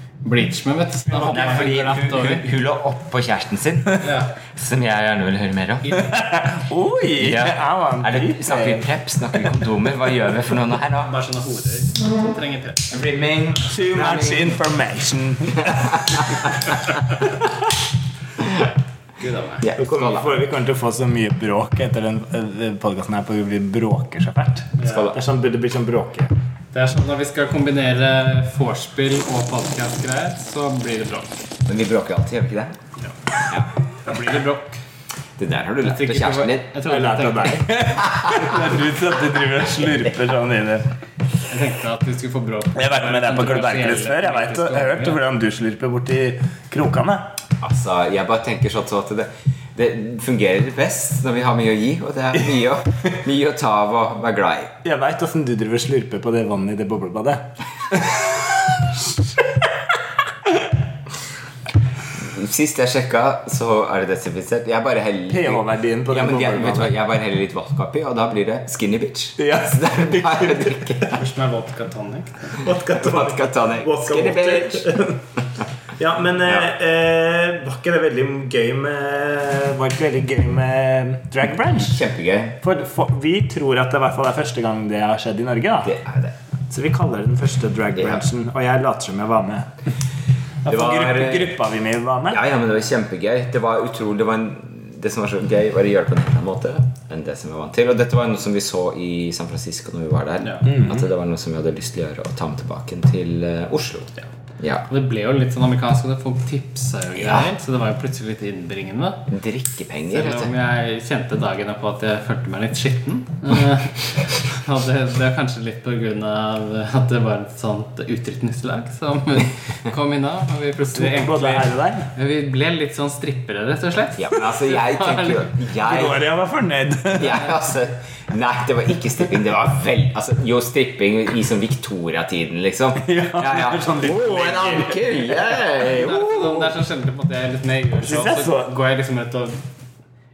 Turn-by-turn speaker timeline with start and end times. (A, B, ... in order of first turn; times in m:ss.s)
0:00.2-0:02.5 A
0:01.2-0:06.1 B
0:04.0-0:04.3 A
0:05.8-0:06.2 A
0:06.0-0:08.9 C
0:07.2-0:11.1 B
0:11.0-0:12.9 A
0:12.9-0:14.6 B
0:13.5-0:16.6 C
0:19.2-0:19.7 A
0:19.6-0:20.4 B
0:19.8-0:26.3 C
0:24.8-0:25.1 A
0:24.8-0:25.2 B
0:26.7-0:31.4 A
0:31.7-0:32.8 B
0:34.0-0:34.8 A
0:35.4-0:36.7 B
0:35.8-0:37.7 A
0:36.8-0:40.9 C
0:38.1-0:38.6 B
0:41.5-0:45.2 A
0:42.8-0:47.3 C
0:47.6-0:54.7 B
0:54.8-0:59.5 C
1:02.2-1:11.2 B
1:05.3-1:06.9 C
1:09.4-1:11.2 C
1:11.1-1:12.6 A
1:12.6-1:15.2 C
1:12.9-1:14.9 B
1:16.0-1:22.0 C
1:16.5-1:16.7 B
1:21.7-1:22.6 B
1:22.6-1:25.9 C
1:25.8-1:26.4 B
1:26.7-1:29.7 C
1:28.0-1:28.2 B
1:30.6-1:32.4 C
1:30.7-1:31.6 B
1:32.3-1:44.9 B
1:40.4-1:40.7 A
1:40.6-1:41.0 C
1:44.9-1:49.3 A
1:47.2-1:47.5 B
1:49.3-1:50.5 B
1:50.1-2:05.5 A
2:01.0-2:02.1 C
2:04.2-2:06.3 B
2:05.8-2:07.5 C
2:07.1-2:16.7 B
2:13.0-2:15.4 C
2:15.8-2:19.6 A
2:18.0-2:18.7 C